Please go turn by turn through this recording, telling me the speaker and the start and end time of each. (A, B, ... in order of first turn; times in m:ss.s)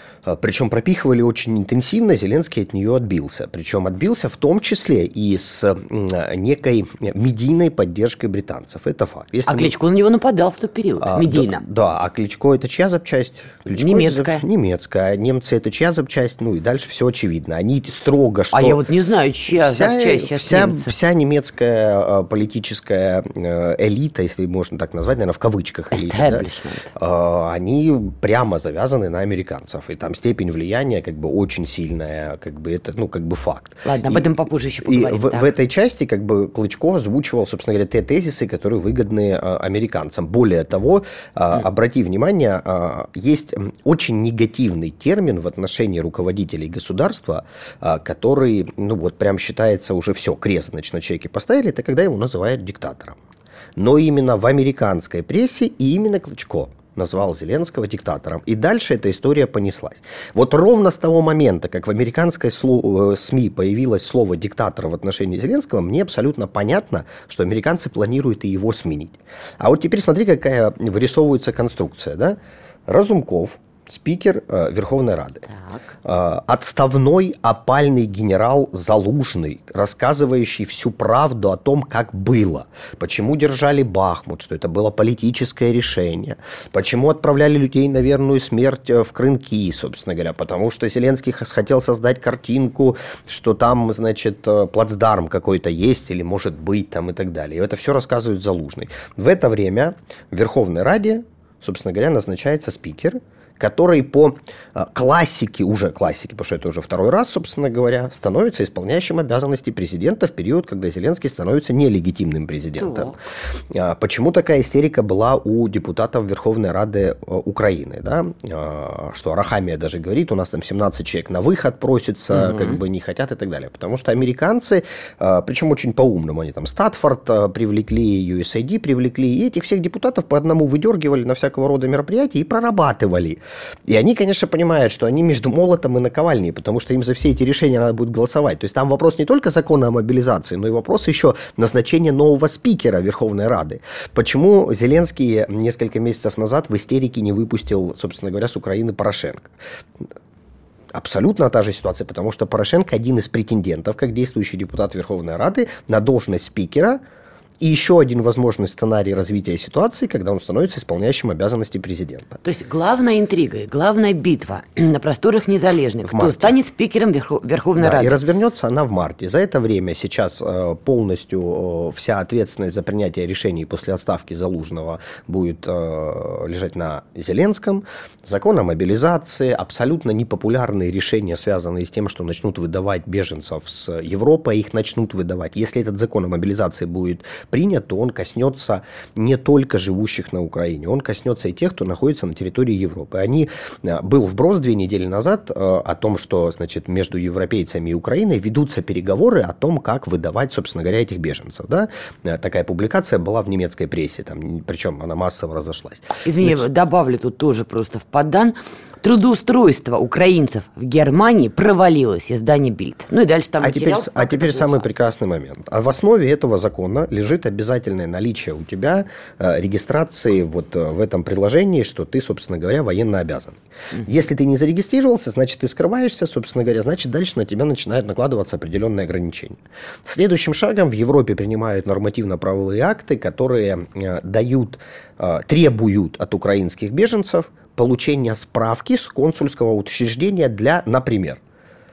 0:00.2-0:09.7 A
0:09.5-0:11.6 B
0:11.0-0:18.8 A
0:13.8-0:14.4 B
0:18.5-0:21.0 B
0:19.5-0:34.3 A
0:25.9-0:26.9 B
0:33.8-0:35.5 B
0:34.8-0:53.2 A
0:53.8-1:15.5 A
1:15.5-1:15.9 B
1:16.0-1:53.2 A
1:52.8-1:53.2 B
1:53.7-2:29.5 A
2:02.3-2:02.8 B
2:30.9-2:37.0 A
2:37.6-2:42.4 A
2:42.4-2:48.2 B
2:46.1-2:46.5 A
2:47.8-3:26.6 A
3:26.2-3:34.8 B
3:33.6-4:01.4 A